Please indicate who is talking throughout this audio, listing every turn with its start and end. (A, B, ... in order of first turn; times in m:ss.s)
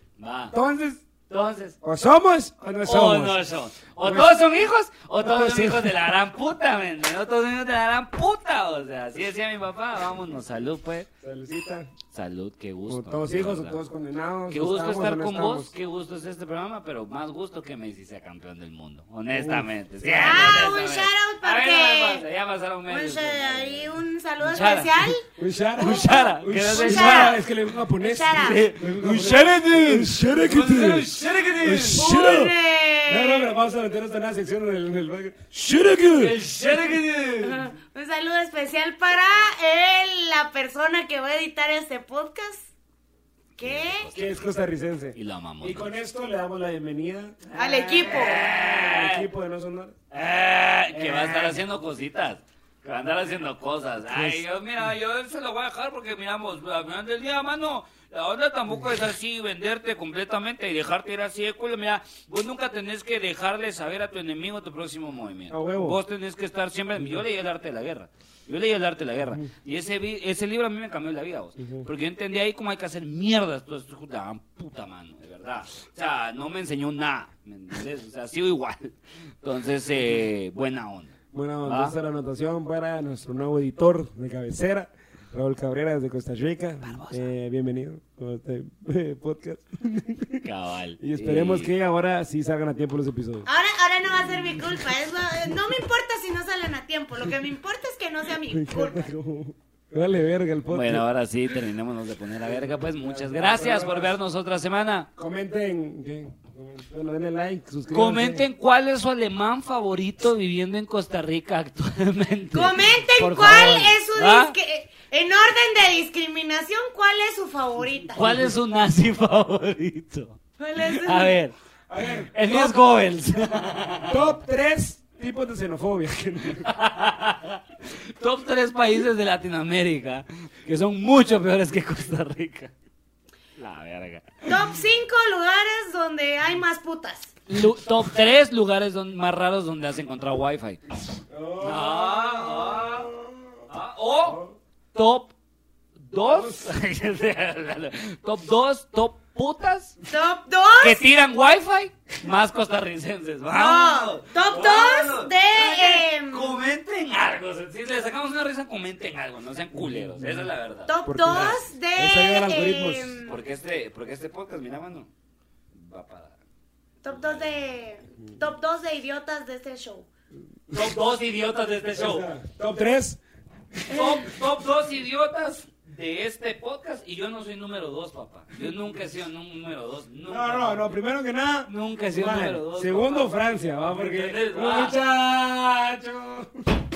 0:00.2-0:00.5 A
0:00.5-0:01.0 B
0:01.3-0:01.8 A
0:01.8-0:03.4 B
0:02.8-0:11.1 A
0:04.0-0:04.4 B
0:05.2-0:06.0 B
0:11.2-0:11.9 B
0:12.1-0:13.8 A
0:12.9-0:15.7 B
0:14.5-0:25.1 A
0:19.3-0:20.6 B
0:20.1-0:22.2 C
0:22.9-0:25.3 C
0:25.3-0:32.5 B
0:25.8-0:27.4 A
0:25.8-0:27.4 C
0:28.0-0:28.7 C
0:28.3-0:32.0 A
0:31.9-0:33.5 C
0:33.0-0:36.4 B
0:36.1-0:37.7 A
0:37.4-0:42.7 C
0:43.6-0:44.4 A
0:43.6-0:44.1 C
0:44.1-0:50.0 B
0:45.1-0:45.9 A
0:47.5-0:48.4 C
0:47.9-0:49.3 A
0:50.1-1:21.9 A
0:50.9-0:51.6 B
0:54.1-0:54.4 B
1:05.5-1:06.0 B
1:07.0-1:07.2 B
1:11.6-1:11.9 B
1:21.3-1:30.4 B
1:26.8-1:27.3 A
1:30.4-1:31.7 A
1:31.0-1:33.5 B
1:33.4-1:39.1 C
1:34.2-1:34.6 B
1:38.5-1:41.0 B
1:40.7-1:45.1 A
1:42.4-1:44.1 B
1:45.2-1:48.4 B
1:47.9-1:54.5 A
1:52.5-1:58.2 C
1:58.2-2:01.5 A
2:00.6-2:01.4 C
2:01.9-2:02.8 B
2:02.3-2:04.2 A
2:04.1-2:06.7 B
2:06.5-2:12.7 A
2:13.6-2:14.5 A
2:14.4-2:17.3 C
2:17.5-2:21.0 A
2:21.3-2:23.6 B
2:21.6-2:23.1 A
2:23.7-2:25.3 A
2:24.2-2:24.5 B
2:26.0-2:30.0 A
2:26.2-2:26.7 B
2:30.1-2:31.0 C
2:30.8-2:41.6 A
2:33.5-2:36.6 C
2:39.7-2:43.2 B
2:40.9-2:43.4 C
2:43.2-2:45.1 A
2:45.7-2:46.4 A
2:47.0-2:50.1 C
2:47.1-2:47.5 A
2:50.7-2:52.3 A
2:51.9-2:53.2 B
2:53.9-3:00.9 A
2:53.9-2:54.2 C
3:00.3-3:06.6 B
3:01.6-3:03.3 A
3:03.9-3:05.0 A